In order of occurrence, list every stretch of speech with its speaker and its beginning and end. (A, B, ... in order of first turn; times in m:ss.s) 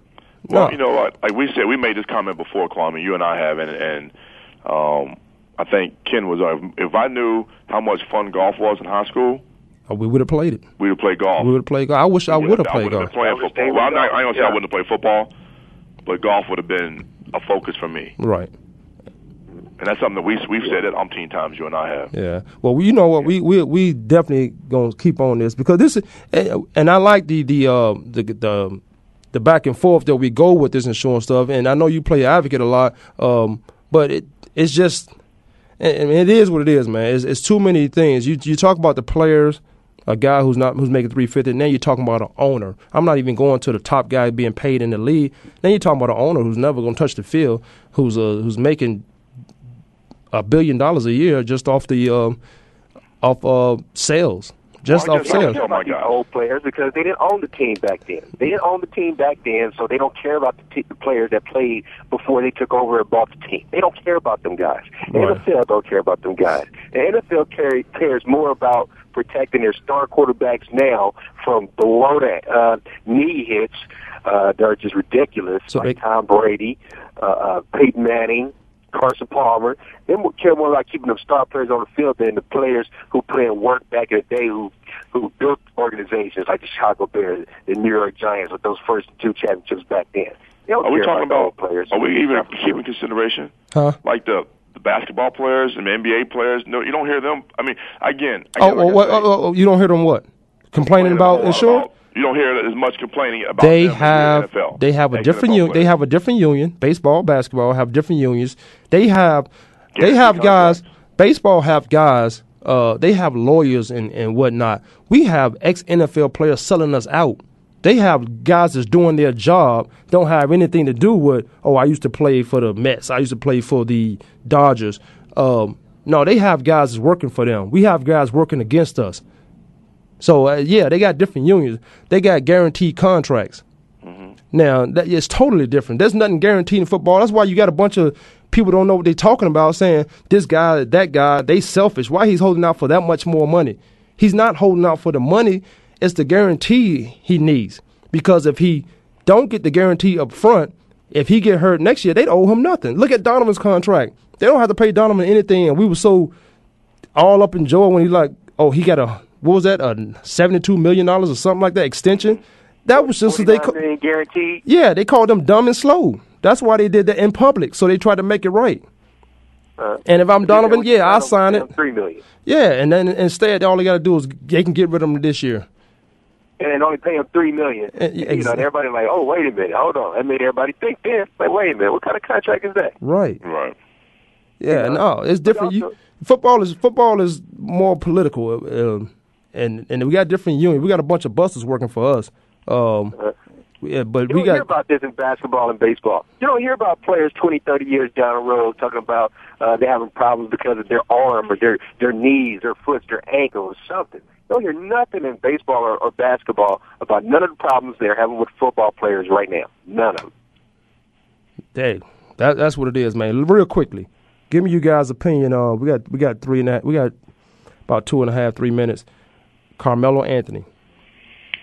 0:00.5-0:00.8 A
0:00.5-0:04.1 B
0:04.6-0:09.4 B
0:09.9-0:10.6 A
0:10.8-0:11.5 B
0:11.4-0:13.1 A
0:12.3-0:15.3 B
0:13.2-0:14.6 C
0:16.1-0:18.1 B
0:18.2-0:18.5 A
0:19.8-0:22.1 B
0:22.1-0:28.8 A
0:29.3-0:35.1 A
0:35.8-0:49.0 A
0:50.3-0:52.4 A
0:53.2-0:55.6 A
0:54.9-0:56.2 B
0:55.0-1:32.8 C
1:15.7-1:16.0 A
1:30.8-1:33.5 B
1:34.0-1:39.3 B
1:38.6-1:41.9 A
1:40.9-1:45.9 B
1:43.6-2:09.2 A
1:50.0-1:50.8 B
2:10.2-2:13.6 A
2:14.0-2:14.3 B
2:14.5-2:36.3 A
2:37.2-2:43.8 A
2:42.9-2:44.6 C
2:44.7-2:48.8 A
2:49.8-2:52.2 C
2:50.0-2:51.7 A
2:52.4-2:55.7 A
2:56.6-3:03.0 C
2:58.0-2:58.6 A
3:03.0-3:03.4 A
3:03.4-3:03.8 B
3:04.6-3:13.2 A
3:04.7-3:05.9 C
3:13.8-3:14.7 A
3:14.3-3:30.3 C
3:31.7-3:37.1 A
3:37.9-3:39.1 A
3:39.8-3:40.7 A